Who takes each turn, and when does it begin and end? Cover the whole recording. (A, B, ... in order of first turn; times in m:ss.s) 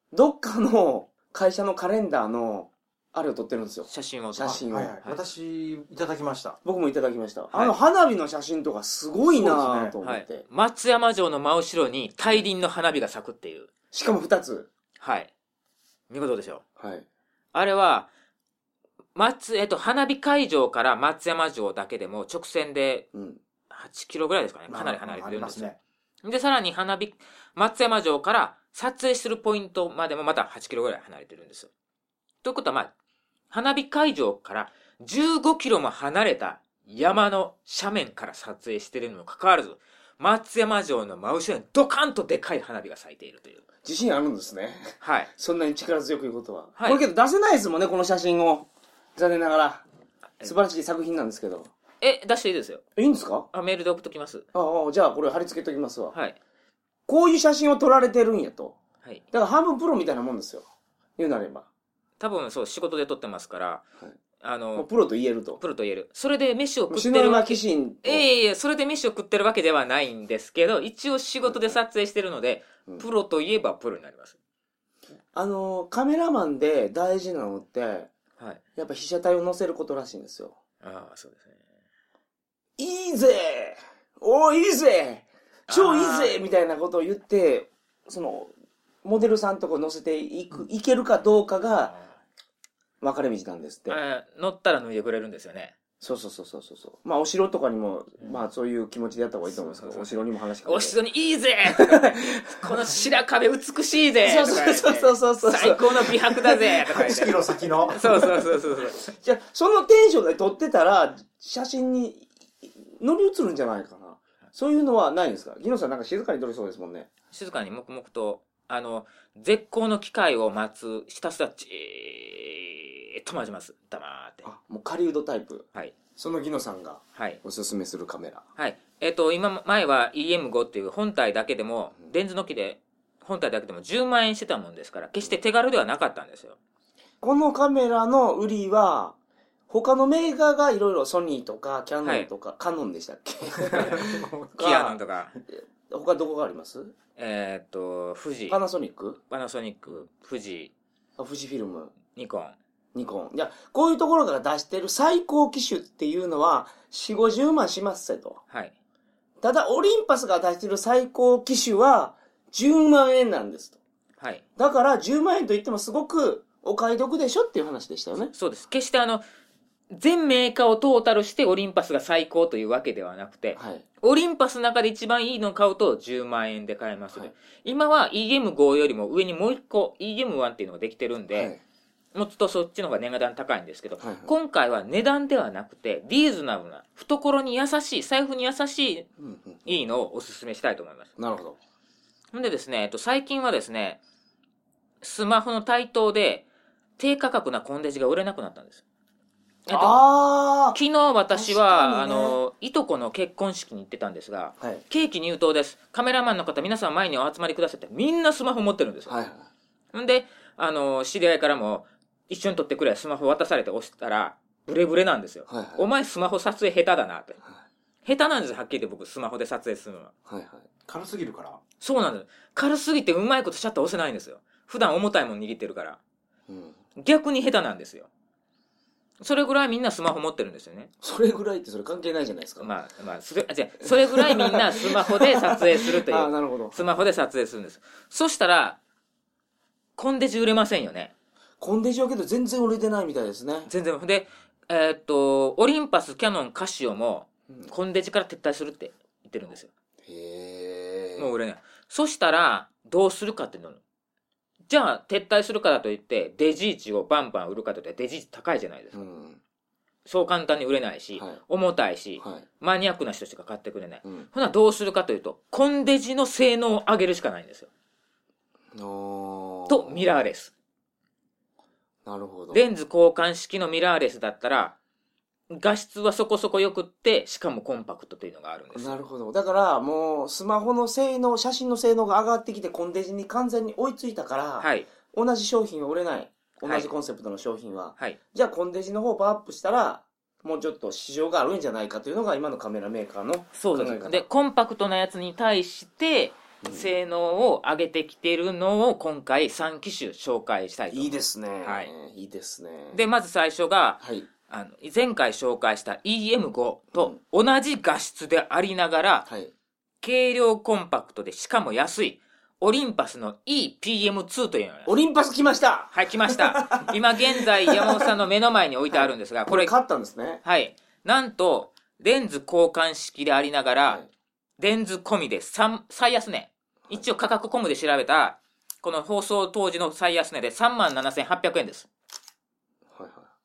0:00.1-0:04.9 A
0:03.9-0:05.2 B
0:04.4-0:06.6 C
0:06.6-0:10.4 A
0:09.3-0:09.9 C
0:10.0-0:13.7 B
0:13.9-0:14.7 A
0:15.0-0:15.3 B
0:16.1-0:16.6 B
0:16.8-0:17.0 A
0:17.5-0:18.1 B
0:19.1-0:23.1 B
0:23.1-0:23.4 A
0:23.7-0:25.7 B
0:24.7-0:25.8 C
0:26.2-0:31.7 B
0:32.4-0:32.9 B
0:33.5-0:43.6 B
0:43.8-0:49.8 A
0:45.0-0:45.3 B
0:50.4-0:51.7 A
0:52.0-0:52.8 B
0:53.0-0:53.5 A
0:53.5-0:54.5 B
0:54.5-0:56.1 A
0:57.1-0:58.7 A
0:59.3-1:00.6 A
1:01.2-1:01.7 A
1:02.2-1:03.8 B
1:04.4-1:04.9 B
1:04.8-1:05.6 A
1:05.6-1:14.4 B
1:06.9-1:08.2 A
1:11.4-1:11.8 A
1:15.3-1:18.1 A
1:18.8-1:20.6 A
1:20.8-1:21.5 B
1:22.8-1:28.5 A
1:25.7-1:26.4 B
1:29.0-1:31.9 A
1:33.0-1:34.0 A
1:33.9-1:35.7 B
1:36.0-1:41.0 A
1:39.5-1:49.0 B
1:41.7-1:42.7 A
1:44.2-1:48.4 A
1:46.9-1:48.2 C
1:49.0-1:57.1 A
1:57.3-2:04.5 B
2:04.4-2:08.4 A
2:07.1-2:07.4 B
2:08.6-2:16.6 B
2:17.2-2:19.2 A
2:19.7-2:25.0 A
2:23.6-2:24.6 C
2:24.6-2:25.3 B
2:25.5-2:26.9 A
2:27.2-2:28.6 B
2:28.5-2:29.2 A
2:29.3-2:30.7 B
2:31.2-2:31.9 A
2:32.1-2:32.5 B
2:32.9-2:38.4 A
2:39.4-2:43.8 A
2:44.6-2:48.3 A
2:48.3-2:49.2 B
2:49.9-3:01.5 B
2:53.6-2:53.8 A
3:01.3-3:01.6 A
3:02.1-3:09.1 B
3:04.0-3:04.3 A
3:09.2-3:09.6 A
3:09.6-3:11.1 B
3:11.2-3:11.6 A
3:12.3-3:14.0 B
3:15.0-3:16.4 B
3:17.0-3:18.8 B
3:19.7-3:20.8 A
3:19.7-3:20.0 B
3:20.7-3:29.2 B
3:21.3-3:22.4 A
3:29.1-3:29.5 A
3:29.9-3:37.4 B
3:35.5-3:35.8 A
3:38.0-3:40.1 B
3:40.3-3:40.7 A
3:40.9-3:41.6 C
3:41.8-3:46.0 B
3:46.5-3:46.8 A
3:47.0-3:48.1 B
3:49.2-3:50.9 B
3:51.0-3:52.7 A
3:52.6-3:58.8 B
3:53.9-3:56.8 A
4:00.0-4:01.1 B
4:01.6-4:03.7 A
4:03.7-4:09.7 B
4:10.0-4:11.3 A
4:11.2-4:13.8 B
4:14.7-4:19.0 B
4:18.9-4:19.4 A
4:20.0-4:27.7 B
4:22.2-4:22.4 A
4:28.7-4:30.0 A
4:29.7-4:30.5 B
4:32.0-4:32.7 A
4:32.5-4:34.7 B
4:35.5-4:39.0 B
4:38.7-4:54.2 A
4:44.6-4:44.9 B
4:46.6-4:46.9 B
4:53.5-5:01.9 B
4:56.6-4:56.9 A
5:00.9-5:03.0 A
5:02.9-5:09.3 B
5:04.0-5:04.3 A
5:09.3-5:09.5 A
5:10.0-5:14.9 B
5:14.8-5:18.0 A
5:15.9-5:19.7 B
5:18.9-5:20.4 A
5:20.4-5:24.0 B
5:24.6-5:31.9 B
5:32.9-5:33.3 A